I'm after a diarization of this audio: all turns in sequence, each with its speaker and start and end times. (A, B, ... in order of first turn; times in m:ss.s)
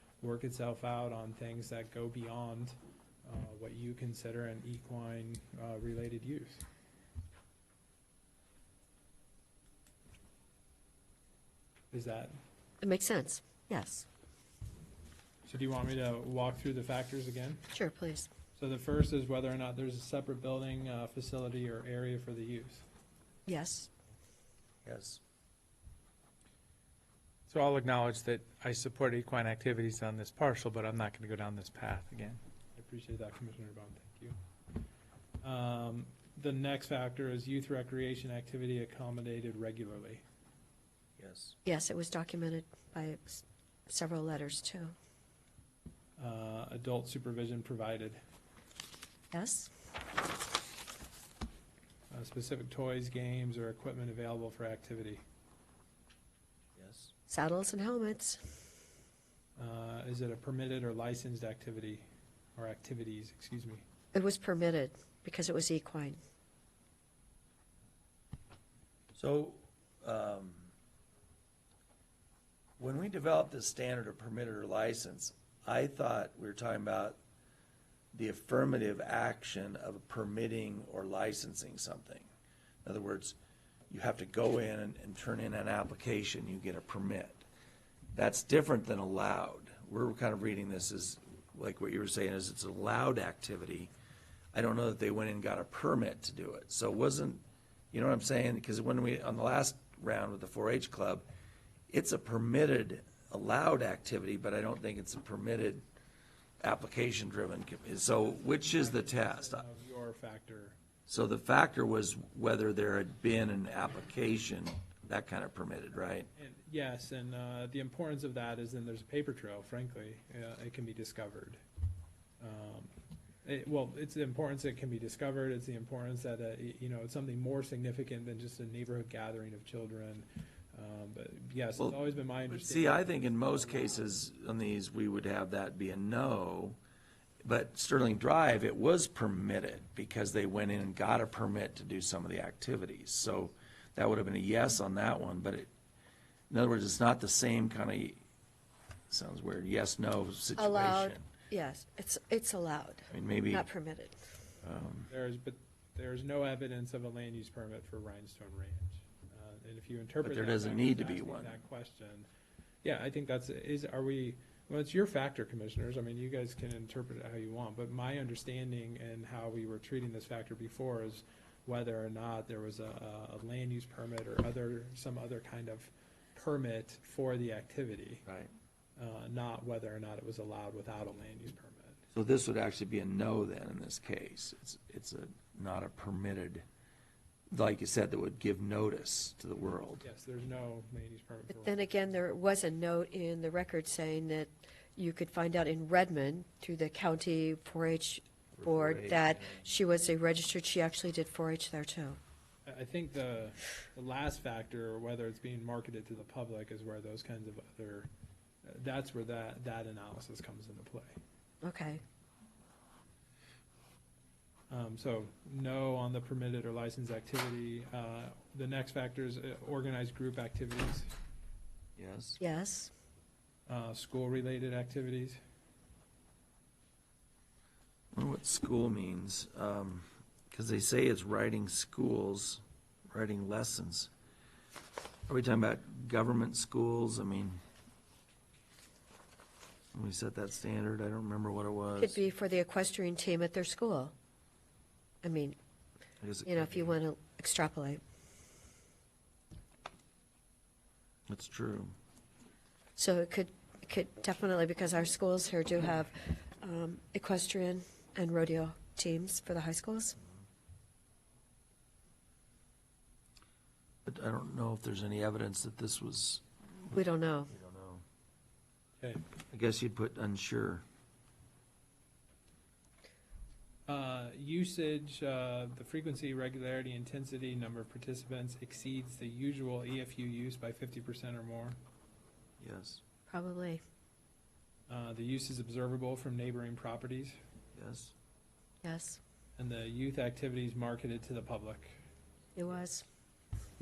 0:00.2-0:02.7 A
0:03.2-0:06.6 A
0:11.9-0:12.3 A
0:12.8-0:14.1 B
0:15.4-0:17.6 A
0:17.7-0:18.3 B
0:18.6-0:22.8 A
0:23.5-0:23.9 B
0:24.8-0:25.2 C
0:27.5-0:32.4 D
0:32.8-0:34.4 A
0:35.4-0:40.2 A
0:41.2-0:41.6 C
0:41.6-0:45.0 B
0:46.2-0:48.2 A
0:49.3-0:49.7 B
0:52.1-0:55.2 A
0:56.8-0:57.1 C
0:57.3-0:58.4 B
0:59.6-1:03.8 A
1:04.1-1:06.2 B
1:09.2-1:10.7 C
1:12.8-1:17.2 C
1:18.1-1:22.3 C
1:22.8-1:23.4 C
1:23.9-1:27.4 C
1:28.1-1:33.9 C
1:34.5-1:41.3 C
1:41.9-1:45.8 C
1:46.6-1:49.6 C
1:48.3-1:50.8 A
1:51.1-1:56.3 C
1:56.3-2:01.6 A
2:02.4-2:02.9 A
2:03.4-2:14.1 A
2:12.5-2:16.8 C
2:17.4-2:25.7 C
2:26.5-2:28.2 C
2:29.1-2:31.2 C
2:30.6-2:34.2 B
2:33.1-2:33.7 C
2:34.6-2:35.1 C
2:35.1-2:42.3 A
2:40.2-2:41.6 C
2:42.8-2:58.2 A
2:58.3-2:58.5 C
2:59.0-3:02.0 A
3:02.1-3:06.6 C
3:07.5-3:10.0 C
3:10.0-3:12.2 A
3:11.5-3:22.2 B
3:18.6-3:19.6 C
3:22.7-3:28.1 A
3:28.6-3:31.2 A
3:31.6-3:32.0 B
3:34.7-3:41.1 A
3:42.0-3:42.4 C
3:42.4-3:42.9 B
3:43.7-3:45.4 A
3:48.1-3:54.1 C
3:55.3-3:57.6 C
3:59.9-4:02.2 C
4:02.0-4:04.1 B
4:05.2-4:05.6 B
4:06.2-4:07.0 C
4:06.4-4:08.0 B
4:11.3-4:11.9 C
4:13.0-4:20.2 B
4:24.0-4:27.0 C
4:26.9-4:27.5 B
4:27.5-4:28.0 C
4:29.5-4:30.8 C
4:33.9-4:41.8 A
4:42.6-4:43.0 C
4:43.3-4:43.8 B
4:44.9-4:47.4 A
4:47.8-4:48.1 C
4:48.8-4:49.2 B
4:49.6-4:52.0 A
4:52.6-4:53.0 B